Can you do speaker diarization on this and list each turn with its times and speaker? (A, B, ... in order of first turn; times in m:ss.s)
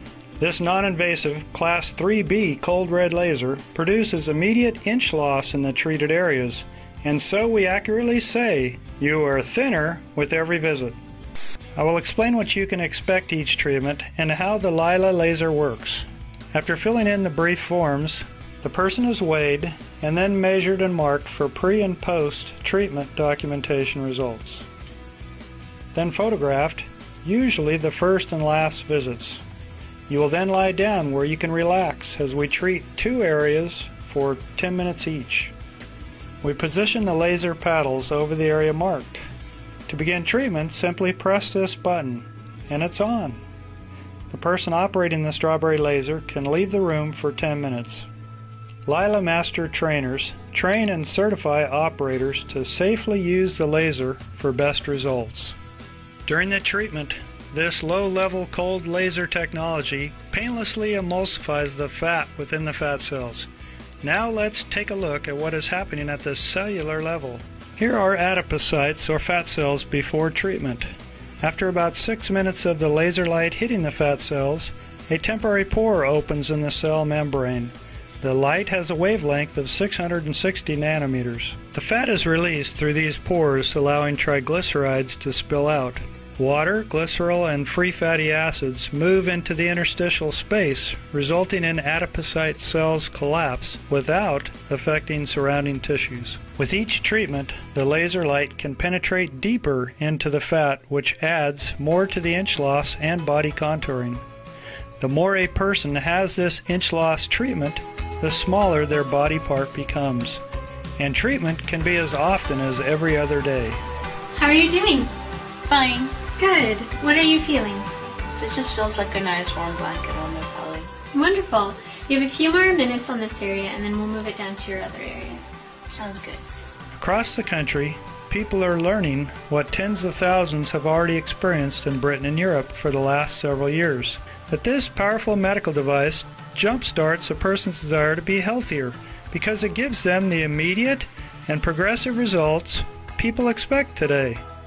0:00.4-0:11.0 A
0:11.8-0:24.6 A
0:25.9-0:29.4 A
0:30.1-0:35.5 A
0:36.4-0:39.2 A
0:39.9-0:43.4 A
0:44.3-0:48.1 A
0:48.8-0:55.6 A
0:56.2-1:03.5 A
1:04.0-1:44.2 A
1:45.0-1:50.4 A
1:51.0-1:53.8 A
1:54.3-1:55.1 B
1:55.6-1:56.1 C
1:56.4-1:57.9 B
1:58.4-2:00.9 C
2:01.1-2:05.4 B
2:05.9-2:06.4 C
2:06.9-2:24.4 A